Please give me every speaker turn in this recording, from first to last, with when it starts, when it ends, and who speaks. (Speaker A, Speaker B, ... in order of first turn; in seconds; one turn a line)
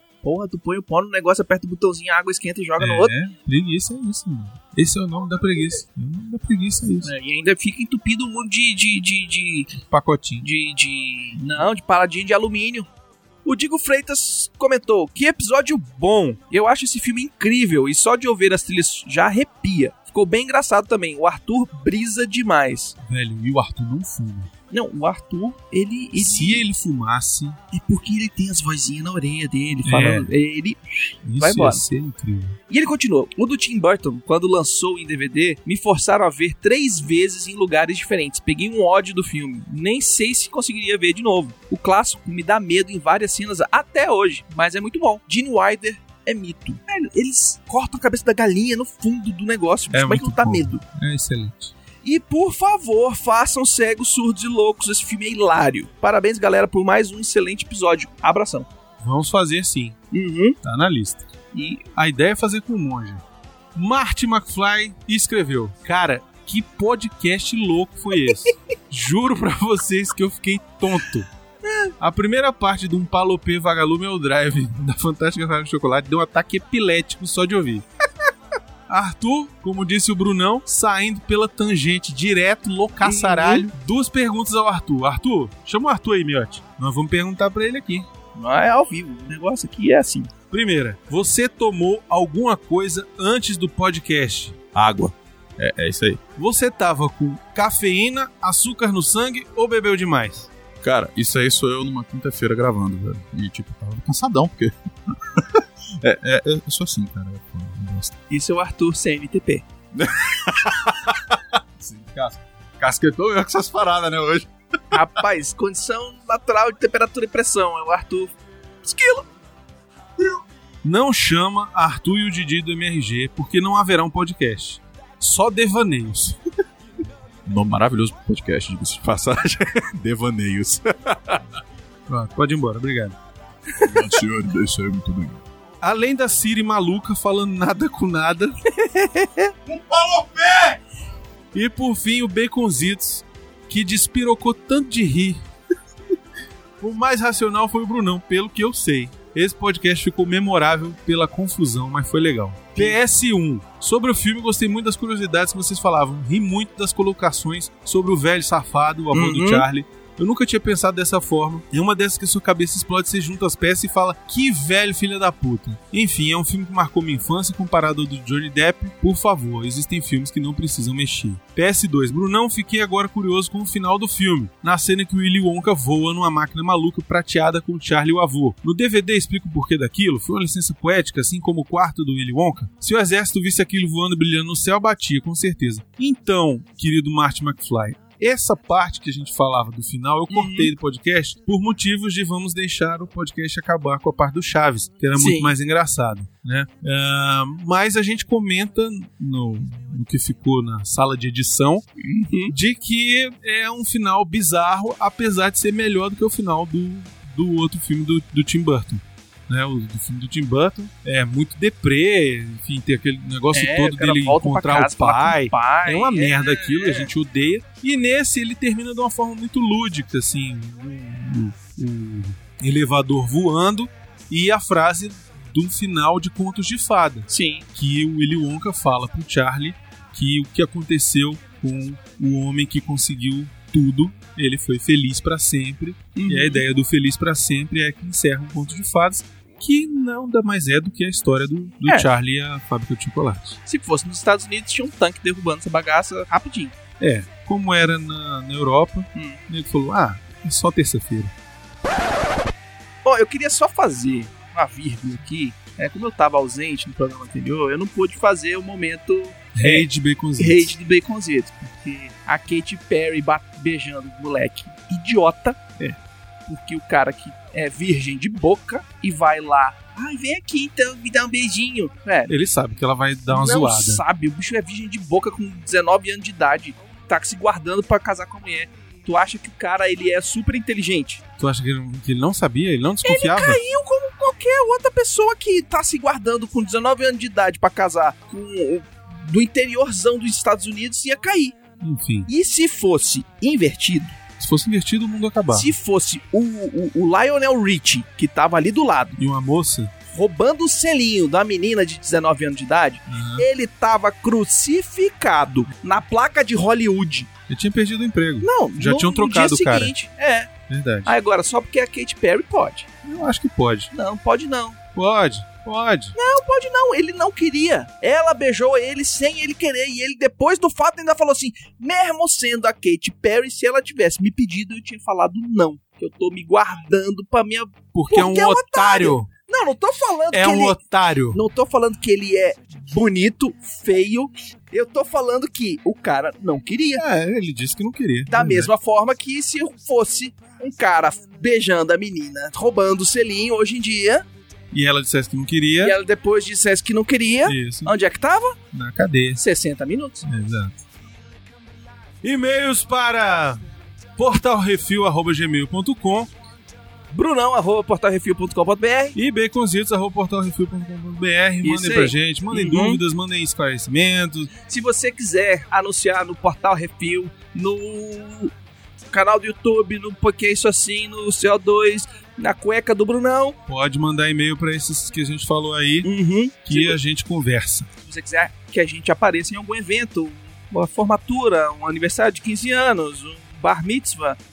Speaker A: 0.2-3.1
Speaker B: 2.8-7.1
Speaker A: 7.0-9.7
Speaker B: 9.8-10.5
Speaker A: 10.4-12.9
Speaker A: 13.4-22.9
Speaker B: 23.0-24.5
Speaker A: 24.7-26.6
Speaker B: 26.1-27.6
Speaker A: 27.7-31.8
Speaker B: 29.8-30.3
Speaker B: 31.2-32.6
Speaker A: 32.7-50.8
Speaker B: 49.9-51.7
Speaker A: 52.0-58.7
Speaker B: 59.0-60.0
Speaker A: 60.1-60.6
Speaker B: 60.6-61.2
Speaker A: 61.5-61.8
Speaker B: 61.9-63.2
Speaker B: 63.7-71.3
Speaker A: 68.2-68.5
Speaker A: 71.6-71.9
Speaker B: 72.0-77.8
Speaker B: 78.9-88.1
Speaker A: 83.0-83.6
Speaker A: 88.3-90.3
Speaker B: 90.5-94.6
Speaker C: 94.7-96.2
Speaker B: 96.3-100.5
Speaker C: 100.8-108.1
Speaker A: 108.3-109.7
Speaker C: 109.9-115.0
Speaker A: 114.9-119.2
Speaker B: 120.8-126.4
Speaker C: 127.4-131.4
Speaker B: 132.1-133.1
Speaker A: 133.7-134.1
Speaker C: 133.8-135.4
Speaker B: 135.8-138.6
Speaker A: 138.7-139.5
Speaker C: 139.7-140.8
Speaker B: 141.5-145.4
Speaker B: 146.8-201.8
Speaker A: 159.1-159.7
Speaker A: 190.3-190.7
Speaker A: 195.2-195.5
Speaker A: 202.0-202.5
Speaker B: 202.5-243.6
Speaker A: 213.5-217.1
Speaker A: 227.3-227.7
Speaker A: 236.1-236.6
Speaker A: 243.7-246.7
Speaker B: 247.0-251.3
Speaker A: 249.1-249.4
Speaker A: 253.0-259.9
Speaker B: 259.6-260.7
Speaker A: 260.4-265.9
Speaker A: 266.5-272.3
Speaker B: 272.3-274.0
Speaker A: 273.3-281.2
Speaker B: 281.4-283.6
Speaker A: 283.0-291.6
Speaker B: 291.8-292.3
Speaker A: 292.2-294.2
Speaker B: 294.4-295.7
Speaker A: 295.5-299.2
Speaker B: 299.2-299.9
Speaker A: 300.1-307.3
Speaker B: 303.1-303.5
Speaker B: 307.5-309.9
Speaker A: 308.4-310.5
Speaker B: 310.7-311.1
Speaker A: 311.1-312.9
Speaker B: 313.0-313.9
Speaker A: 313.9-314.8
Speaker B: 314.9-316.2
Speaker A: 316.1-330.8
Speaker B: 327.9-329.3
Speaker B: 330.3-331.4
Speaker A: 331.3-337.0
Speaker B: 336.9-338.7
Speaker A: 338.3-344.2
Speaker B: 344.7-345.9
Speaker A: 345.8-348.5
Speaker B: 347.4-347.9
Speaker B: 348.7-349.4
Speaker A: 349.4-350.2
Speaker B: 350.2-350.8
Speaker B: 352.2-353.6
Speaker B: 354.2-356.3
Speaker A: 357.1-359.1
Speaker B: 359.1-364.5
Speaker A: 361.6-363.0
Speaker A: 364.6-368.5
Speaker A: 369.1-373.6
Speaker B: 373.7-376.1
Speaker A: 376.0-377.0
Speaker B: 376.6-377.9
Speaker A: 378.0-384.4